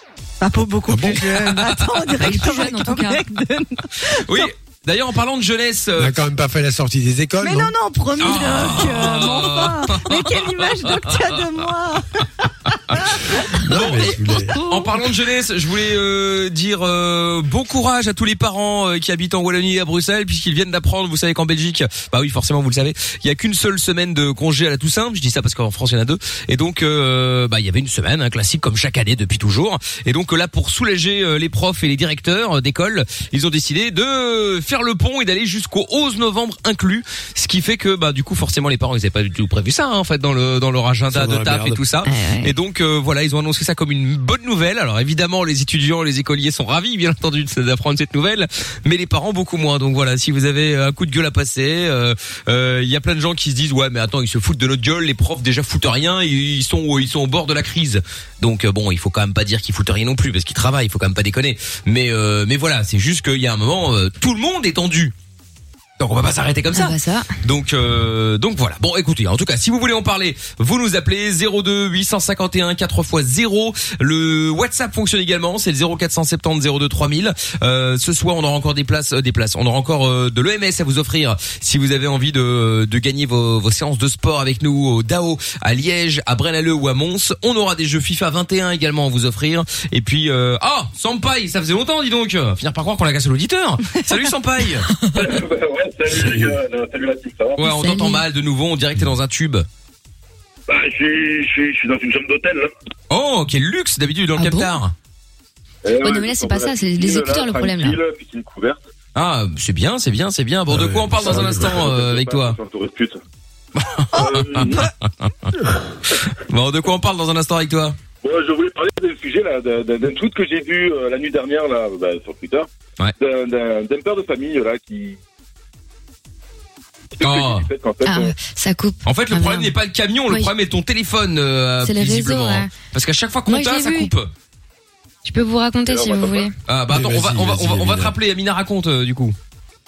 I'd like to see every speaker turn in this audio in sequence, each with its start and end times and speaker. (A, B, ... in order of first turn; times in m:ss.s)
0:00.4-0:04.5 A
0:00.9-0:01.4 B
0:01.4-0:02.2 C
0:02.2-0:03.2 D
0:04.0-0:06.1 C
0:06.0-0:07.7 B
0:07.4-0:13.6 A
0:08.2-1:05.1 C
0:13.5-0:14.6 B
0:41.1-0:41.8 B
0:42.0-0:42.5 D
1:06.0-1:34.9 C
1:06.7-1:07.3 D
1:35.1-1:37.6 E
1:36.1-1:36.5 B
1:37.6-1:39.7 C
1:37.6-1:38.2 D
1:40.7-1:42.7 E
1:43.1-1:44.9 C
1:44.4-1:44.8 D
1:45.8-1:48.8 E
1:46.0-1:48.0 D
1:49.1-1:52.6 C
1:50.7-1:51.8 B
1:51.3-1:53.2 E
1:53.7-1:55.5 C
1:54.1-1:54.8 E
1:54.2-1:54.8 A
1:56.1-1:58.0 C
1:58.2-2:02.7 E
2:03.2-2:05.2 E
2:07.2-2:08.3 E
2:07.2-2:07.7 C
2:08.0-2:09.7 D
2:09.0-2:14.3 C
2:11.8-2:12.7 D
2:13.5-2:14.1 D
2:15.2-2:16.5 D
2:15.8-2:16.5 E
2:16.7-2:19.3 C
2:16.9-2:18.1 B